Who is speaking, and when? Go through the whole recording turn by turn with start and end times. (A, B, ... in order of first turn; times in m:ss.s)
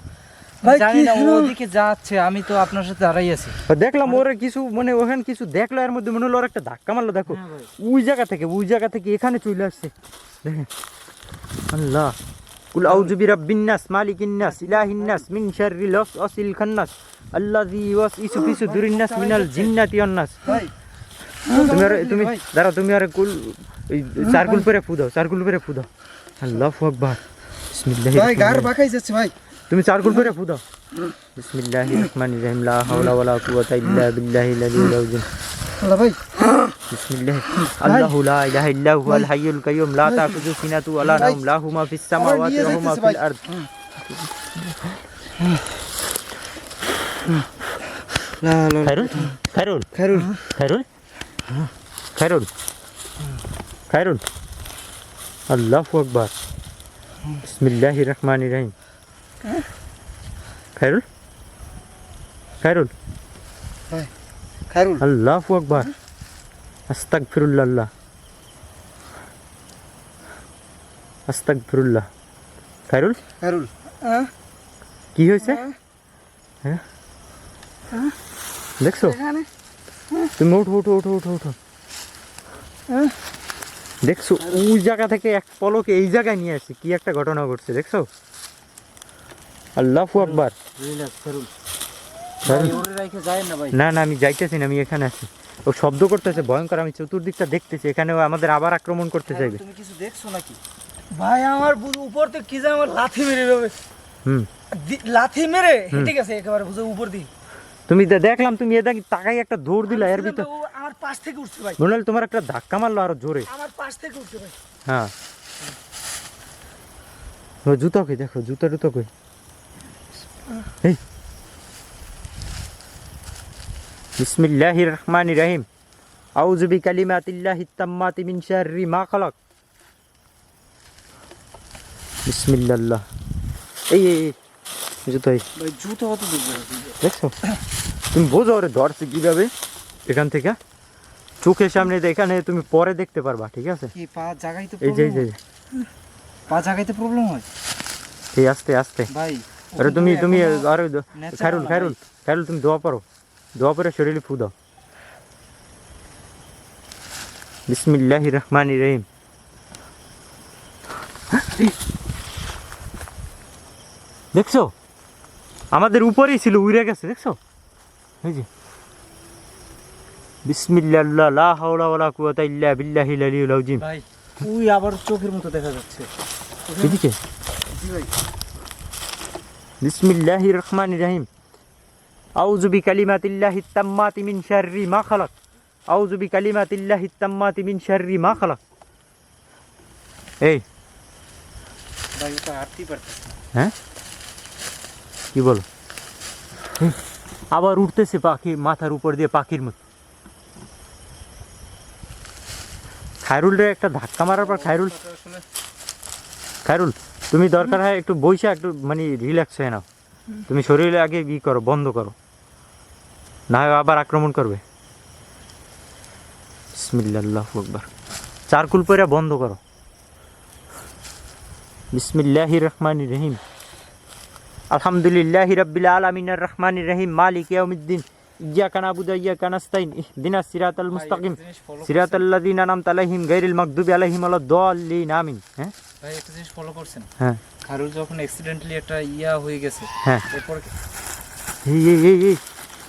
0:00.6-0:01.5 A
0:00.6-0:03.6 B
0:03.7-0:10.7 C
0:07.3-0:07.7 B
0:11.7-0:12.2 C
0:12.7-0:20.4 C
0:12.8-0:13.1 B
0:14.4-0:15.2 B
0:18.5-0:19.7 B
0:20.4-0:20.7 B
0:21.4-0:21.9 A
0:21.5-0:22.4 B
0:21.7-0:25.9 C
0:26.4-0:27.2 C
0:27.7-0:28.7 C
0:28.1-0:29.3 B
0:29.7-0:30.6 C
0:31.4-0:35.3 C
0:35.8-0:36.7 A
0:36.9-0:43.4 C
0:37.8-0:38.1 A
0:42.2-0:43.2 A
0:44.1-0:44.9 C
0:48.4-0:49.4 B
0:48.8-0:50.8 C
0:49.9-0:50.3 B
0:52.1-0:52.5 C
0:53.9-0:54.2 C
0:55.5-0:56.3 C
0:57.4-0:58.7 C
1:00.8-1:01.0 C
1:02.6-1:02.9 C
1:04.7-1:05.0 B
1:05.0-1:05.9 C
1:06.9-1:07.9 C
1:11.3-1:12.1 C
1:12.9-1:13.2 C
1:13.4-1:13.7 B
1:14.0-1:14.3 A
1:15.1-1:15.6 C
1:15.4-1:15.7 A
1:18.8-1:19.2 C
1:18.9-1:19.5 A
1:20.4-1:21.6 C
1:22.9-1:23.1 A
1:24.0-1:28.1 C
1:29.8-1:30.5 C
1:30.2-1:31.5 B
1:32.4-1:33.8 B
1:32.4-1:32.8 C
1:33.7-1:39.6 C
1:39.3-1:40.6 B
1:41.1-1:43.8 A
1:44.7-1:47.3 A
1:47.9-1:50.5 C
1:49.9-1:51.8 A
1:51.8-1:53.5 C
1:53.5-1:54.6 A
1:54.9-1:55.1 C
1:57.6-1:59.1 C
2:04.2-2:05.6 C
2:06.4-2:09.3 C
2:12.2-2:13.0 C
2:13.9-2:14.4 C
2:15.0-2:15.4 C
2:15.6-2:17.0 B
2:17.0-2:17.4 C
2:18.1-2:19.5 C
2:20.1-2:20.6 C
2:21.4-2:23.9 C
2:23.9-2:25.3 B
2:24.8-2:25.4 C
2:26.5-2:27.4 B
2:28.3-2:29.1 C
2:29.1-2:32.0 B
2:29.8-2:33.0 C
2:33.6-2:34.5 C
2:37.7-2:39.0 C
2:41.3-2:41.7 C
2:44.3-2:44.7 C
2:45.7-2:47.4 C
2:50.4-2:53.8 C
2:53.8-2:56.1 B
2:56.8-2:57.2 C
2:57.7-2:58.1 B
2:59.8-3:01.3 C
3:02.4-3:05.3 C
3:05.9-3:08.6 C
3:12.1-3:13.4 B
3:15.3-3:15.6 C
3:17.5-3:19.8 C
3:23.2-3:24.9 C
3:24.3-3:25.4 B
3:26.6-3:29.8 C
3:30.5-3:32.2 C
3:33.5-3:34.6 C
3:36.7-3:37.9 C
3:38.5-3:39.6 C
3:41.9-3:43.4 C
3:44.7-3:55.7 C
3:50.9-3:52.2 B
3:56.0-3:57.1 B
3:57.6-4:00.7 B
4:01.6-4:02.4 C